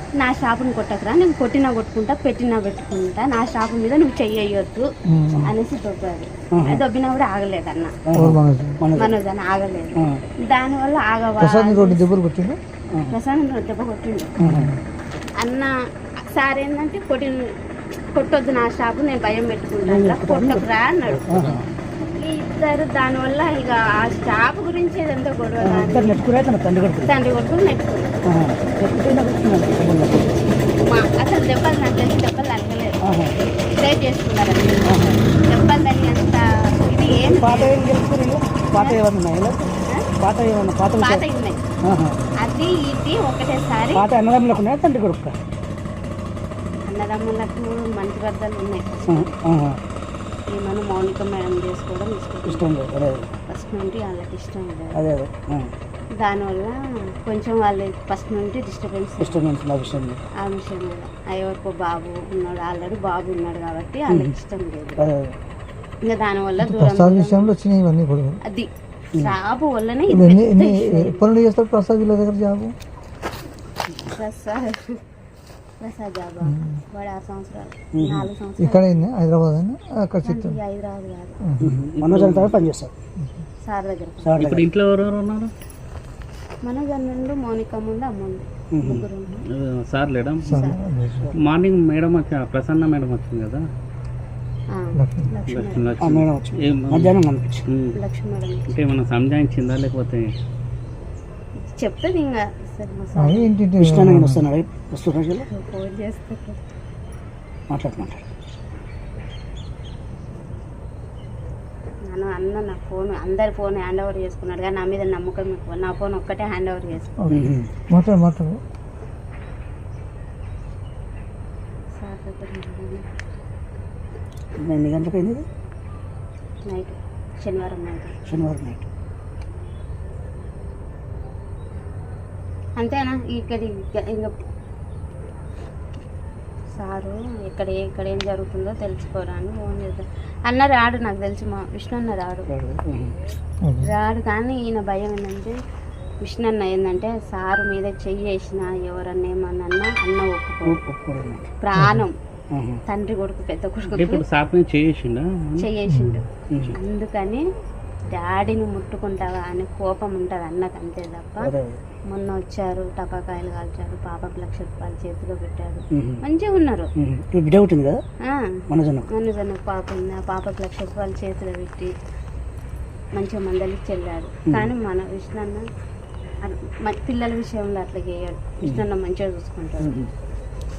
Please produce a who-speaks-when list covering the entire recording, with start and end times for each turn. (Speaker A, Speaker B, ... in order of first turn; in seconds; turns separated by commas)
Speaker A: 0.2-4.9, Speaker B: 5.0-5.5, Speaker A: 5.4-8.0, Speaker C: 6.5-6.8, Speaker C: 8.1-9.1, Speaker B: 8.1-8.8, Speaker A: 8.9-12.1, Speaker C: 9.9-10.2, Speaker B: 11.4-12.6, Speaker A: 13.1-14.4, Speaker C: 14.4-14.8, Speaker B: 14.4-14.8, Speaker A: 15.4-17.5, Speaker A: 18.1-26.2, Speaker C: 19.8-21.7, Speaker C: 25.6-27.1, Speaker A: 27.0-28.1, Speaker C: 28.3-30.4, Speaker A: 30.8-33.0, Speaker C: 33.0-33.3, Speaker A: 33.6-37.9, Speaker C: 34.9-35.2, Speaker C: 37.1-41.2, Speaker A: 38.8-39.0, Speaker A: 41.0-41.6, Speaker C: 41.8-42.2, Speaker A: 42.4-44.0, Speaker C: 43.9-45.4, Speaker A: 46.9-49.3, Speaker C: 49.1-49.8, Speaker A: 50.5-52.6, Speaker C: 52.5-53.3, Speaker A: 53.5-55.0, Speaker C: 54.9-55.7, Speaker A: 56.2-59.4, Speaker C: 59.2-60.2, Speaker A: 60.4-65.1, Speaker C: 64.1-64.3, Speaker C: 65.0-65.3, Speaker A: 66.0-67.5, Speaker B: 66.6-68.4, Speaker A: 68.4-71.3, Speaker B: 70.1-72.7, Speaker A: 74.0-75.0, Speaker A: 75.8-79.1, Speaker B: 76.4-76.8, Speaker C: 77.9-78.3, Speaker B: 78.6-80.6, Speaker A: 80.2-81.4, Speaker B: 81.4-81.8, Speaker C: 81.6-82.9, Speaker D: 81.7-82.6, Speaker A: 83.6-84.5, Speaker C: 84.2-84.7, Speaker D: 84.4-85.5, Speaker A: 86.6-89.5, Speaker C: 88.7-89.0, Speaker D: 88.9-90.6, Speaker A: 90.4-90.9, Speaker B: 90.4-91.3, Speaker D: 91.3-93.6, Speaker A: 94.7-95.9, Speaker B: 94.9-95.3, Speaker D: 95.5-97.2, Speaker C: 96.0-97.6, Speaker D: 97.7-97.9, Speaker A: 97.9-98.7, Speaker D: 98.7-100.3, Speaker A: 101.7-103.5, Speaker B: 103.2-104.4, Speaker C: 103.8-105.5, Speaker A: 105.5-106.6, Speaker C: 107.7-108.3, Speaker A: 112.1-117.3, Speaker B: 117.2-118.6, Speaker C: 117.3-117.7, Speaker A: 122.0-123.0, Speaker C: 124.6-125.4, Speaker A: 126.7-128.1, Speaker C: 128.2-128.8, Speaker A: 132.8-134.3, Speaker A: 136.7-142.5, Speaker C: 142.5-143.2, Speaker B: 143.6-143.9, Speaker A: 143.8-145.6, Speaker A: 146.2-150.8, Speaker C: 150.7-151.5, Speaker A: 151.6-152.1, Speaker B: 151.8-152.0, Speaker C: 152.5-152.8, Speaker A: 152.8-154.2, Speaker D: 153.9-155.7, Speaker A: 155.6-157.4, Speaker B: 155.9-156.2, Speaker A: 158.1-161.5, Speaker C: 161.4-161.8, Speaker A: 162.1-166.9, Speaker C: 165.9-166.2, Speaker C: 167.0-168.0, Speaker A: 168.2-171.9, Speaker C: 168.7-169.1, Speaker A: 173.1-175.6, Speaker A: 176.4-179.9, Speaker C: 179.8-180.1